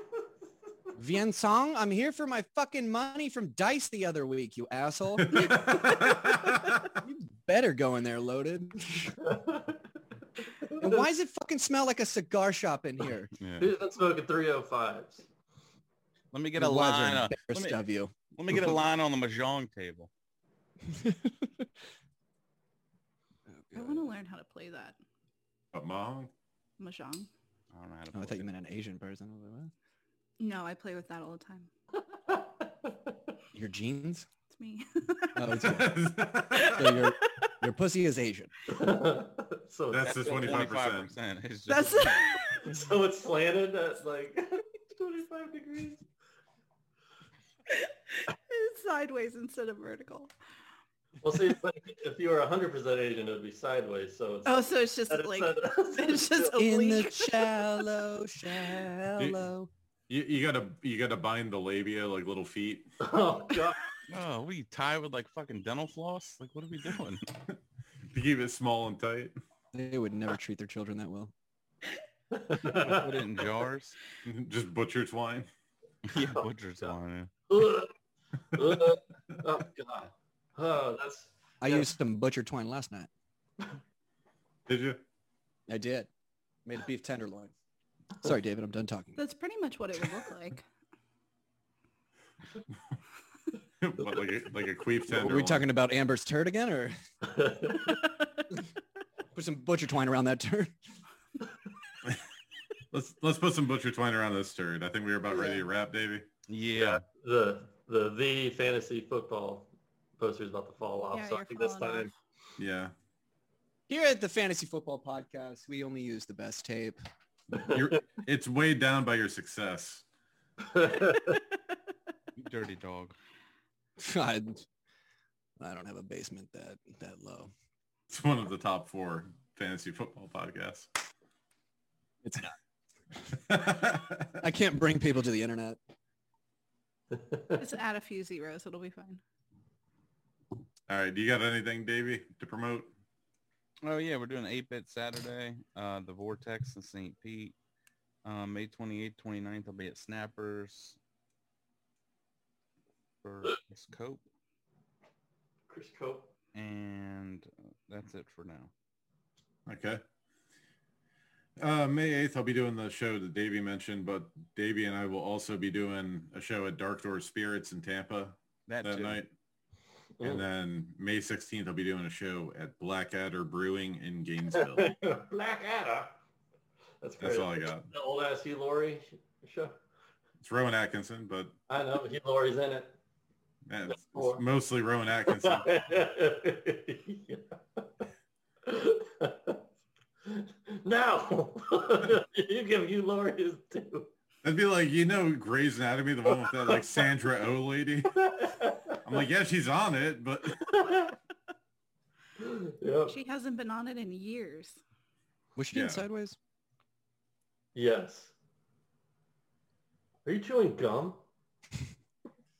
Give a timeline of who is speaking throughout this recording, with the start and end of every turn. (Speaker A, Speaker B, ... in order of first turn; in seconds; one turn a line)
Speaker A: 0.9-6.3
Speaker B: 5.3-6.8
Speaker C: 5.3-5.9
Speaker A: 6.9-9.2
Speaker D: 9.2-9.8
Speaker D: 10.4-11.0
Speaker A: 10.8-13.3
Speaker E: 13.4-13.7
Speaker D: 13.6-15.3
Speaker E: 16.3-17.8
Speaker A: 16.6-18.8
Speaker E: 18.4-20.1
Speaker A: 20.8-21.7
Speaker A: 23.5-24.1
Speaker C: 23.7-25.0
Speaker B: 25.7-26.3
Speaker C: 26.8-27.3
Speaker E: 27.7-28.5
Speaker A: 28.1-29.7
Speaker C: 30.4-31.7
Speaker D: 32.1-33.1
Speaker A: 33.5-34.3
Speaker C: 34.5-35.6
Speaker A: 35.3-36.0
Speaker B: 35.5-36.9
Speaker C: 36.5-37.5
Speaker A: 36.7-38.5
Speaker D: 38.7-40.7
Speaker B: 39.9-41.1
Speaker E: 40.3-42.3
Speaker C: 41.7-42.7
Speaker D: 42.6-46.0
Speaker C: 47.7-50.3
Speaker D: 51.2-56.6
Speaker C: 54.5-57.9
Speaker A: 56.5-59.7
Speaker B: 59.2-59.5
Speaker B: 60.1-62.9
Speaker D: 63.0-63.8
Speaker E: 64.1-67.3
Speaker B: 68.1-69.4
Speaker A: 69.7-71.3
Speaker D: 72.3-73.2
Speaker E: 72.7-74.0
Speaker B: 74.2-75.5
Speaker E: 76.1-77.3
Speaker D: 76.3-76.9
Speaker D: 77.5-77.9
Speaker D: 78.5-81.9
Speaker A: 81.6-83.1
Speaker B: 84.7-85.0
Speaker A: 85.7-86.1
Speaker A: 86.6-87.5
Speaker A: 88.2-89.2
Speaker C: 89.2-90.6
Speaker B: 93.8-95.7
Speaker A: 95.0-96.9
Speaker D: 97.2-98.0
Speaker A: 99.3-100.7
Speaker B: 102.9-106.2
Speaker A: 105.3-105.6
Speaker E: 106.5-107.0
Speaker D: 106.7-112.1
Speaker C: 111.1-112.1
Speaker B: 112.6-112.9
Speaker A: 113.9-117.0
Speaker D: 117.5-118.0
Speaker B: 117.6-120.0
Speaker D: 120.6-121.4
Speaker E: 122.3-123.2
Speaker A: 124.0-124.7
Speaker A: 125.6-127.5
Speaker B: 128.1-130.9
Speaker A: 132.2-132.6
Speaker B: 133.3-134.4
Speaker A: 134.4-135.8
Speaker D: 137.1-137.6
Speaker C: 137.6-139.2
Speaker B: 140.9-142.9
Speaker E: 143.8-147.5
Speaker E: 148.2-151.0
Speaker E: 153.2-154.2
Speaker D: 155.7-156.3
Speaker E: 156.5-158.7
Speaker B: 159.7-160.0
Speaker B: 161.6-169.3
Speaker E: 168.7-169.2
Speaker D: 170.2-170.4
Speaker B: 170.2-174.9
Speaker D: 174.5-176.2
Speaker D: 177.0-179.8
Speaker B: 177.2-177.9
Speaker B: 180.4-181.5
Speaker D: 181.7-183.0
Speaker B: 183.7-185.7
Speaker D: 183.9-184.4
Speaker D: 185.4-187.8
Speaker D: 188.6-189.6
Speaker D: 190.2-194.1
Speaker B: 194.4-198.1
Speaker D: 196.4-197.0
Speaker D: 198.1-199.0
Speaker B: 199.0-200.7
Speaker D: 200.5-201.2
Speaker D: 202.4-203.2
Speaker C: 203.1-204.8
Speaker A: 205.6-206.4
Speaker B: 205.7-206.0
Speaker D: 207.7-208.3
Speaker D: 210.2-211.2